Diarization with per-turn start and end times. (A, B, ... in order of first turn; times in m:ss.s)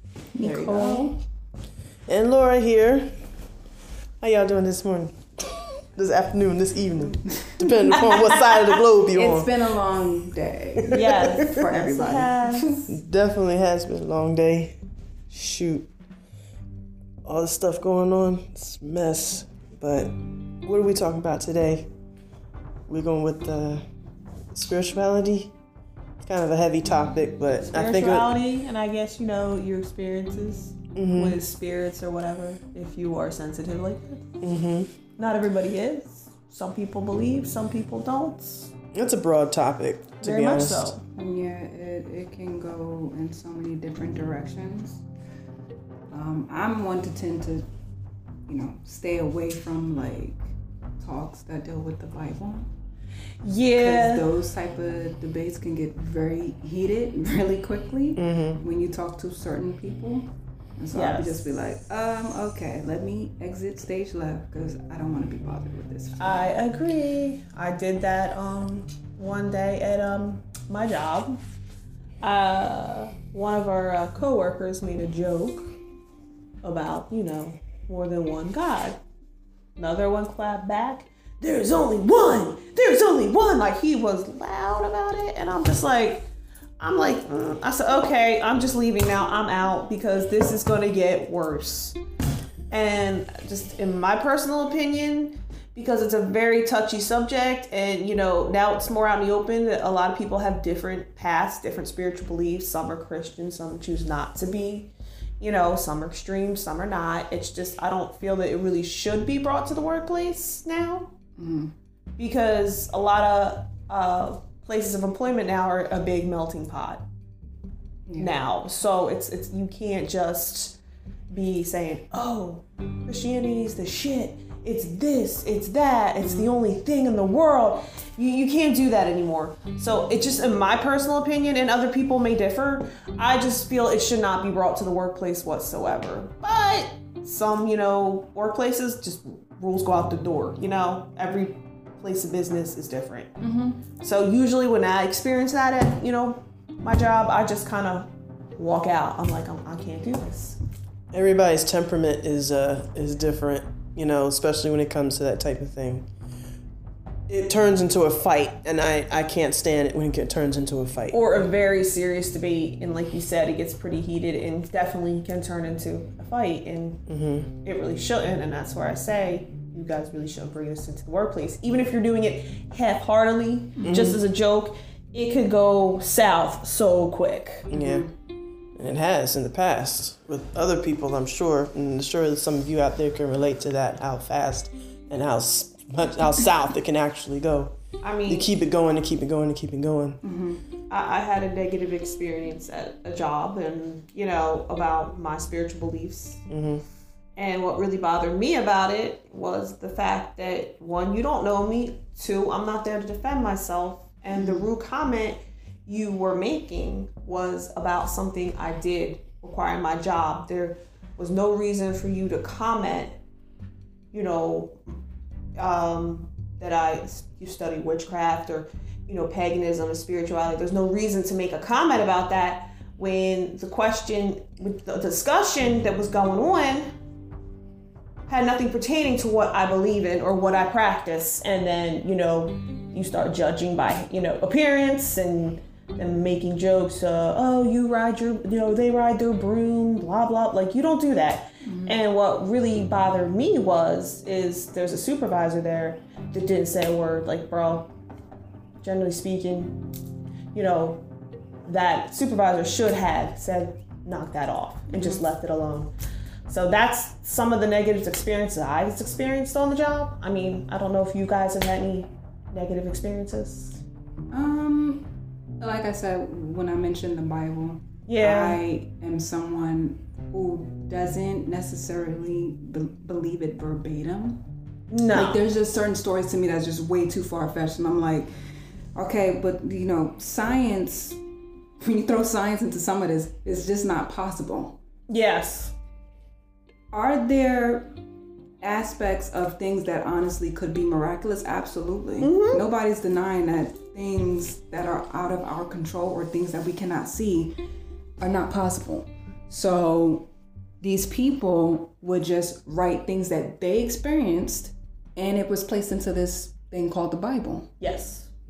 0:00.4-0:01.2 A
0:00.4-0:01.1 B
0:02.1-0:03.1 C
0:04.2-0:09.5 C
0:07.3-0:08.0 A
0:08.0-0:08.8 B
0:09.1-0:12.9 A
0:10.8-0:11.6 C
0:10.9-0:12.8 B
0:12.9-0:14.8 C
0:15.3-0:15.9 C
0:17.2-0:21.9 C
0:22.9-0:23.8 C
0:24.5-0:25.5 C
0:26.2-0:28.3 C
0:27.7-0:34.3 B
0:31.0-0:31.4 C
0:34.4-0:35.0 C
0:35.2-0:38.7 B
0:38.9-0:41.0 C
0:40.2-0:41.0 B
0:41.2-0:45.0 A
0:46.1-0:47.7 A
0:48.5-0:52.7 A
0:53.4-0:54.3 B
0:53.8-1:06.5 A
0:58.2-0:58.6 C
1:00.9-1:01.4 B
1:06.2-1:11.4 B
1:12.2-1:15.7 B
1:16.6-1:19.0 B
1:19.8-1:26.3 B
1:26.8-1:32.0 B
1:32.7-1:51.1 B
1:51.4-1:51.7 A
1:52.2-1:57.0 B
1:58.1-1:58.3 A
1:58.2-2:00.8 B
2:01.3-2:23.3 B
2:06.2-2:06.5 A
2:23.4-2:23.8 A
2:24.0-2:30.6 B
2:31.1-2:36.1 C
2:37.3-2:41.4 C
2:41.1-2:47.0 B
2:47.1-2:47.5 C
2:47.6-2:57.7 B
2:53.8-2:54.2 A
2:53.9-2:54.2 C
2:57.7-2:58.1 C
2:57.7-2:58.1 A
2:58.8-3:07.8 C
3:08.0-3:08.5 B
3:08.3-3:10.2 C
3:10.2-3:10.6 A
3:10.9-3:16.4 B
3:16.5-3:16.8 C
3:17.4-3:33.2 B
3:24.3-3:24.7 A
3:34.1-3:34.8 B
3:35.6-3:46.9 B
3:48.3-4:07.9 B
4:01.6-4:02.0 A
4:08.8-4:09.8 B
4:10.5-4:11.0 B
4:11.6-4:15.9 B
4:14.9-4:15.2 A
4:16.5-4:23.8 B
4:24.3-4:34.4 A
4:28.1-4:28.6 B
4:34.9-4:35.4 B
4:35.1-4:38.3 A
4:39.0-4:41.2 A
4:41.8-4:44.8 A
4:45.1-4:45.7 B
4:46.9-4:47.9 A
4:48.6-4:57.6 A
4:52.2-4:52.6 B
4:58.2-5:00.3 A
5:00.8-5:07.7 A
5:07.8-5:08.3 B